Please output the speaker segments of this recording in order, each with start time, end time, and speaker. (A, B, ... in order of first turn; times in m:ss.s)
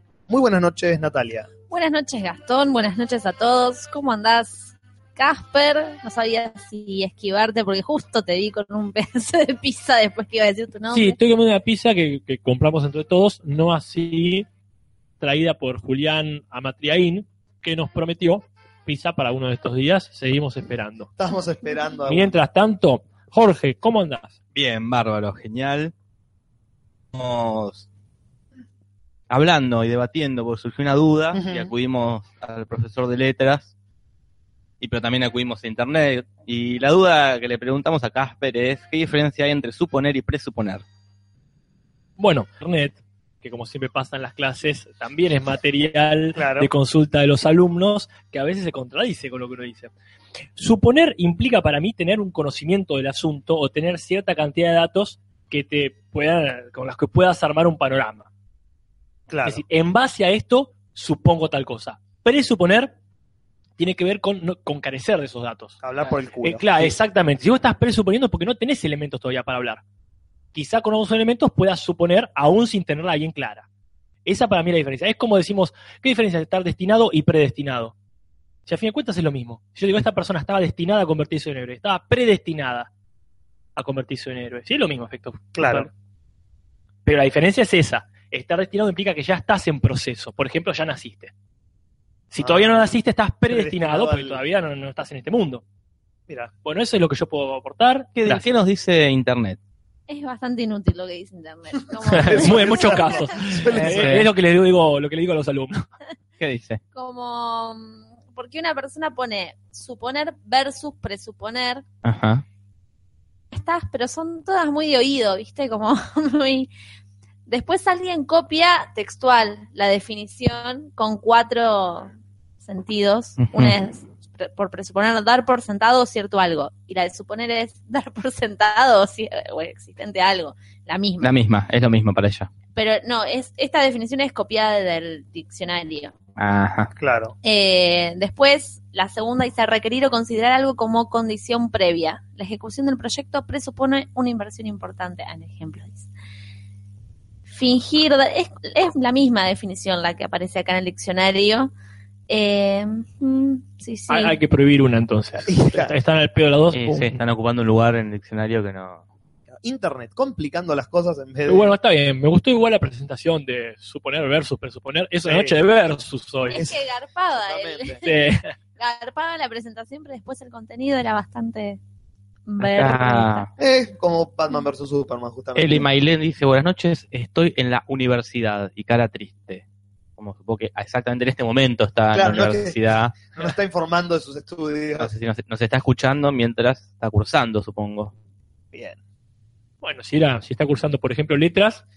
0:00.3-0:01.5 A
0:01.7-0:11.2 B
0:10.9-0:14.4 C
0:15.2-0:21.1 C
0:21.2-0:22.4 A
0:22.1-0:24.3 C
0:24.5-0:25.9 D
0:27.1-0:27.8 D
0:29.3-0:33.7 D
0:31.3-0:31.7 A
0:34.8-0:40.8 D
0:42.2-0:49.9 C
0:46.3-0:46.7 A
0:50.6-0:58.3 C
0:59.3-0:59.6 A
0:59.4-1:02.9 C
1:03.8-1:05.8 C
1:05.8-1:07.0 A
1:06.4-1:09.8 C
1:10.5-1:13.6 C
1:14.2-1:17.9 C
1:18.6-1:22.9 C
1:23.8-1:25.9 C
1:25.5-1:25.9 A
1:27.0-1:31.3 C
1:32.3-1:35.6 C
1:32.4-1:32.9 A
1:33.5-1:34.4 A
1:36.6-1:38.4 C
1:38.2-1:39.6 D
1:40.1-1:43.2 B
1:42.0-1:44.2 A
1:42.1-1:45.9 C
1:43.8-1:44.2 D
1:46.4-1:46.8 D
1:46.9-1:51.8 B
1:52.0-1:52.4 D
1:53.5-1:56.7 B
1:57.5-2:02.1 B
2:02.6-2:11.3 B
2:03.4-2:03.8 D
2:11.2-2:12.5 D
2:12.7-2:16.1 B
2:16.4-2:16.9 D
2:17.0-2:17.3 A
2:17.4-2:26.1 B
2:27.5-2:31.7 B
2:32.3-2:34.4 B
2:34.1-2:37.2 C
2:35.5-2:36.0 A
2:36.7-2:39.0 D
2:39.6-2:41.7 A
2:41.5-2:46.6 C
2:45.2-2:45.6 A
2:46.5-2:48.2 B
2:46.5-2:46.8 A
2:47.3-2:48.0 A
2:48.0-2:48.5 C
2:48.8-2:51.8 B
2:52.5-2:53.5 B
2:52.6-2:53.5 D
2:53.6-2:55.8 A
2:55.6-2:59.6 D
3:00.2-3:03.2 D
3:02.1-3:02.8 A
3:03.3-3:05.1 A
3:05.0-3:08.1 D
3:08.7-3:09.0 A
3:09.8-3:11.8 C